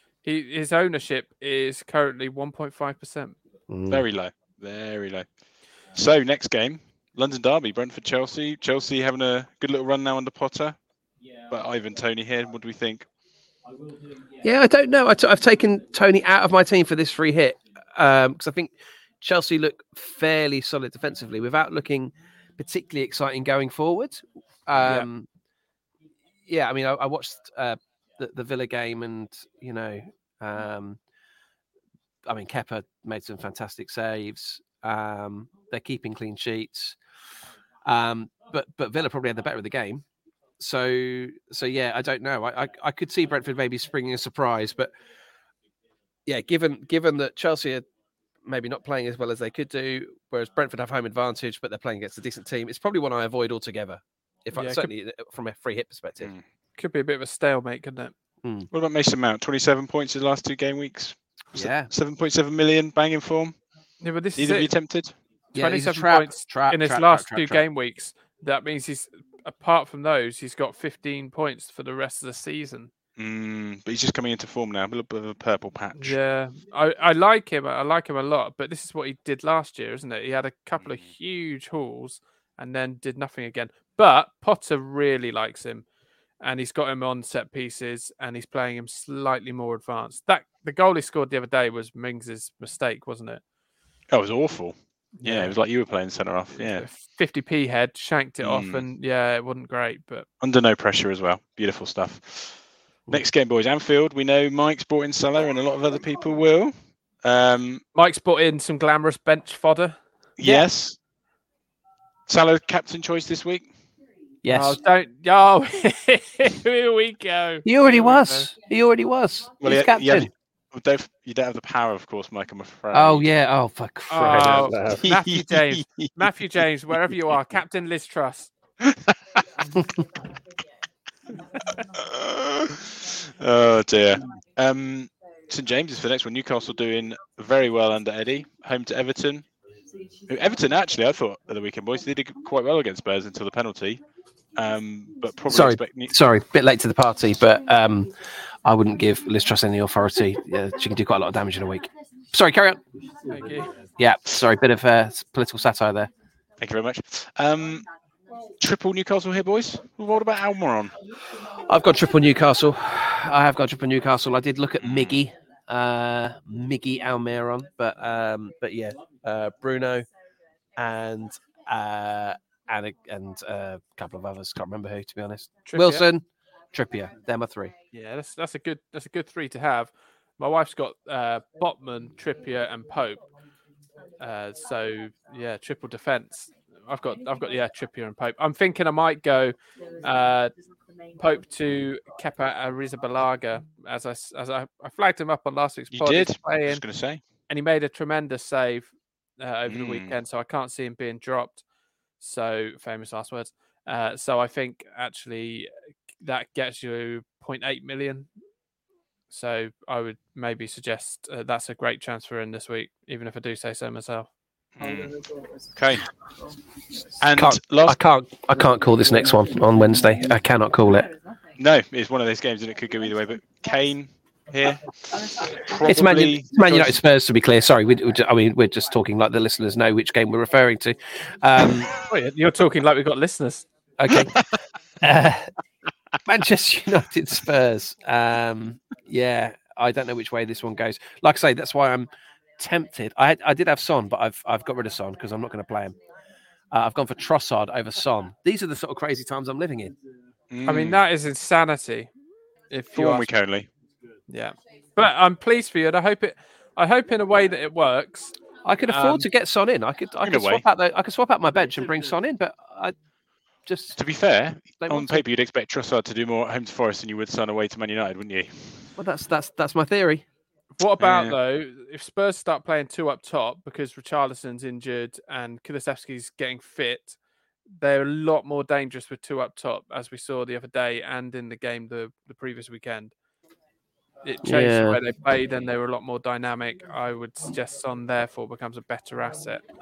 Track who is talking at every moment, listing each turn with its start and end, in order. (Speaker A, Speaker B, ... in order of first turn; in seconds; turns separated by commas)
Speaker A: 0.2-3.4, Speaker B: 3.7-4.1, Speaker C: 3.9-5.3, Speaker C: 5.9-10.8, Speaker C: 11.5-13.1, Speaker B: 14.4-25.3, Speaker B: 26.5-31.0, Speaker B: 32.3-37.0, Speaker B: 37.9-40.0, Speaker B: 40.6-44.9, Speaker B: 46.3-47.8, Speaker B: 48.5-56.3, Speaker A: 54.6-54.9, Speaker A: 56.8-58.1, Speaker B: 58.4-58.7, Speaker C: 58.7-63.6, Speaker B: 61.5-61.9, Speaker A: 64.0-64.7, Speaker C: 64.4-65.1, Speaker B: 65.5-67.6, Speaker A: 65.5-72.9, Speaker C: 73.2-76.2, Speaker A: 76.0-85.8, Speaker A: 86.4-93.4, Speaker C: 94.1-96.9, Speaker A: 95.2-95.5, Speaker A: 96.7-100.3, Speaker C: 98.4-98.9, Speaker C: 100.4-102.6, Speaker C: 103.1-107.8, Speaker A: 108.0-110.0, Speaker C: 110.4-111.0, Speaker B: 110.4-110.7, Speaker C: 112.3-113.7, Speaker B: 114.4-114.8, Speaker A: 114.5-118.5, Speaker B: 117.7-120.3, Speaker C: 119.6-123.3, Speaker B: 122.9-125.8, Speaker A: 124.1-128.5, Speaker C: 124.3-125.0, Speaker C: 128.9-129.1, Speaker B: 129.7-130.0, Speaker C: 131.8-139.4, Speaker C: 140.3-144.0, Speaker C: 144.6-146.1, Speaker B: 145.5-152.8, Speaker A: 153.3-153.7, Speaker B: 153.9-156.1, Speaker C: 156.6-157.8, Speaker C: 158.6-160.9, Speaker B: 161.6-170.1, Speaker C: 164.8-165.2, Speaker B: 170.8-177.7, Speaker A: 175.7-176.1, Speaker A: 177.9-183.2, Speaker A: 184.2-190.6, Speaker A: 191.2-196.8, Speaker C: 195.9-197.2, Speaker A: 197.5-201.6, Speaker C: 199.7-200.2, Speaker A: 202.2-205.7, Speaker A: 206.2-208.3, Speaker A: 209.3-214.3, Speaker C: 214.8-215.1, Speaker C: 215.8-216.1, Speaker C: 217.2-218.0, Speaker B: 217.3-221.1, Speaker C: 221.6-227.0, Speaker B: 225.8-231.9, Speaker A: 232.1-233.7, Speaker B: 234.0-234.3, Speaker C: 234.2-234.5, Speaker B: 235.0-235.5, Speaker B: 236.3-246.0, Speaker B: 246.7-249.9, Speaker C: 250.5-251.0, Speaker A: 250.7-252.1, Speaker A: 252.7-253.3, Speaker C: 252.9-253.7, Speaker A: 254.3-259.3, Speaker B: 258.6-262.9, Speaker C: 260.2-260.6, Speaker B: 263.7-264.0, Speaker C: 263.9-268.9, Speaker B: 264.8-265.2, Speaker B: 268.9-270.2, Speaker A: 270.8-277.2, Speaker C: 271.0-271.4, Speaker A: 277.8-283.1, Speaker A: 284.2-289.6, Speaker B: 284.4-285.0